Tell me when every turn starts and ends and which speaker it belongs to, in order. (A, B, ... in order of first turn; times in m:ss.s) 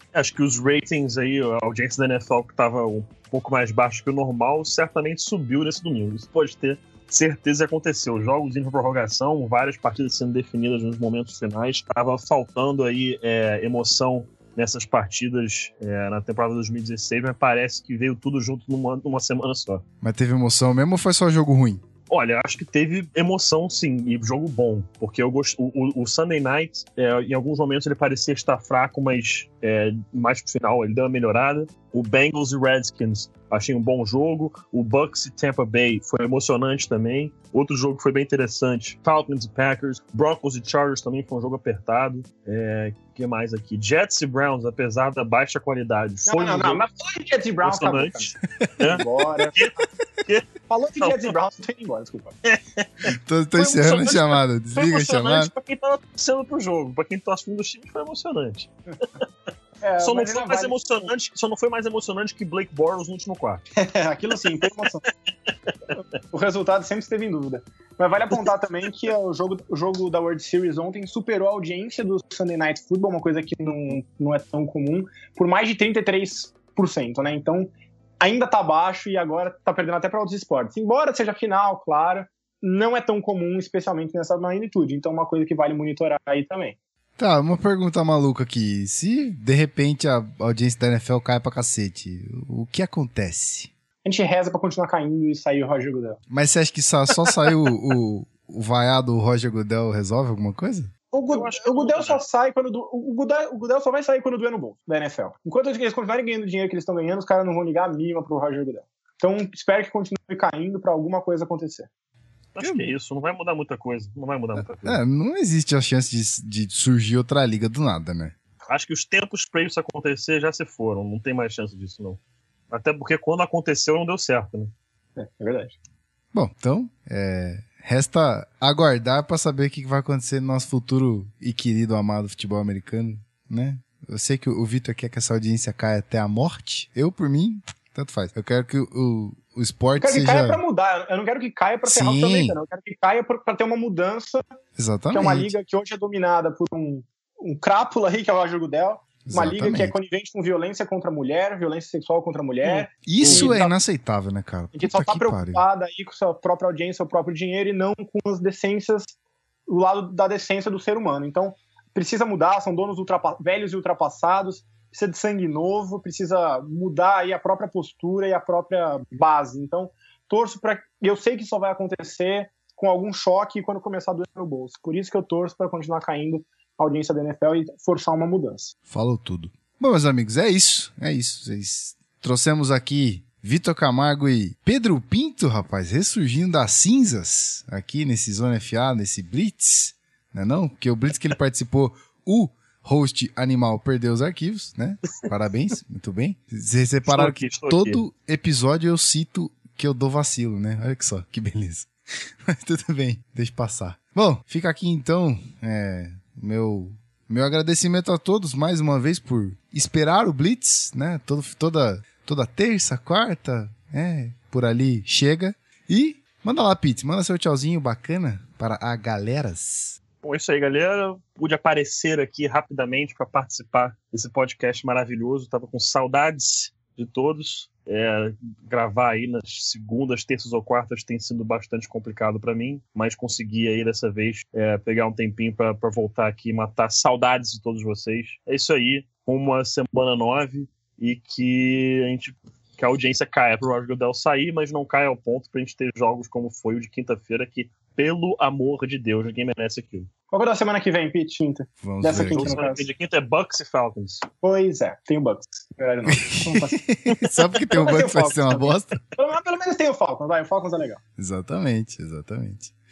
0:00.1-0:19.8 A
0:20.0-0:21.8 B
0:22.1-0:46.8 A
0:46.3-0:48.4 C
0:47.6-0:50.5 A
0:48.9-0:49.6 C
0:50.7-0:52.4 C
0:51.0-0:51.3 A
0:52.4-0:59.0 A
0:53.1-0:55.5 B
0:59.8-1:01.1 C
1:00.0-1:03.6 A
1:03.8-1:05.0 C
1:06.3-1:26.8 C
1:27.2-1:33.7 B
1:34.0-1:36.2 C
1:36.3-1:40.9 B
1:41.1-1:51.9 C
1:41.3-1:42.2 A
1:52.6-1:55.0 A
1:52.6-1:52.9 B
1:54.6-1:58.3 B
1:58.7-2:04.7 A
2:05.2-2:05.8 C
2:06.3-2:20.6 B
2:20.0-2:24.4 C
2:21.9-2:22.6 B
2:24.8-2:25.5 B
2:25.1-2:33.7 C
2:29.2-2:30.0 B
2:32.6-2:33.6 A
2:33.1-2:35.6 B
2:34.7-2:39.1 C
2:39.7-2:58.8 C
2:58.9-3:21.9 B
3:17.1-3:18.0 A
3:22.4-3:40.0 B
3:40.2-4:10.1 A
4:10.3-4:12.9 C
4:11.8-4:12.6 B
4:12.2-4:14.3 A
4:14.4-4:16.8 C
4:16.1-4:19.0 B
4:17.7-4:21.0 C
4:21.2-4:22.7 B